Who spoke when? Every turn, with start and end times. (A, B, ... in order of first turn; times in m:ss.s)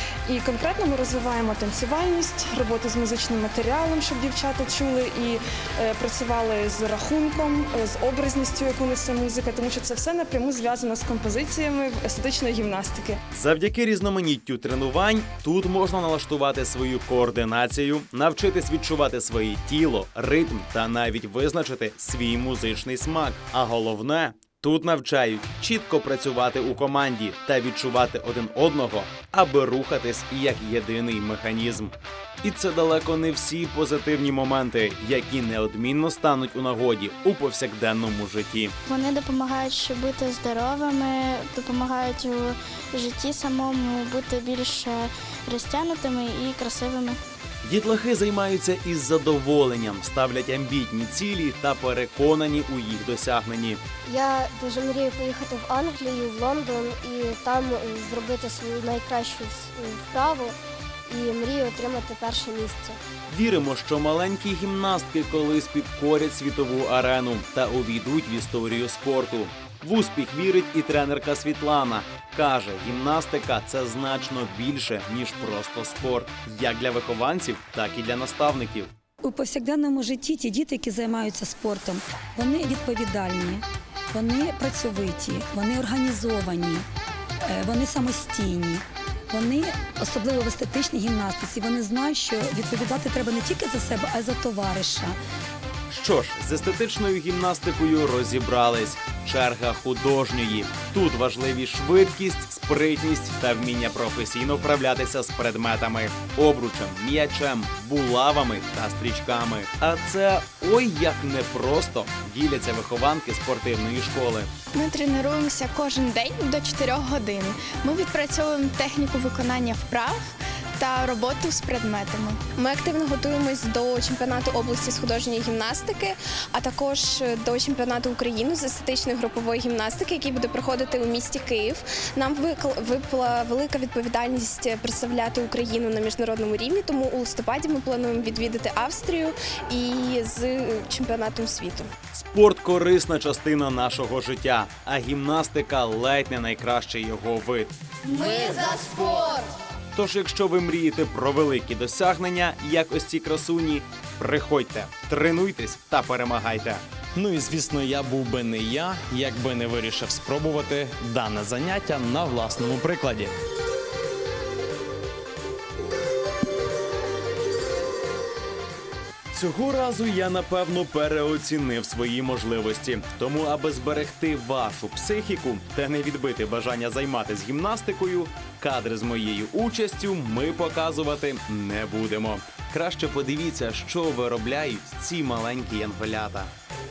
0:00.3-0:13.2 A
0:13.3-0:38.7 B
0:38.9-0:47.2 C
0:47.6-0:53.8 B
0:54.0-1:03.0 D
1:03.3-1:18.9 B
1:19.2-1:26.8 E
1:27.4-1:35.2 E
1:35.9-1:54.5 B
1:54.7-2:02.4 F
2:02.6-2:21.9 G
2:22.1-2:29.4 B
2:29.9-2:43.3 B
2:49.3-3:06.5 B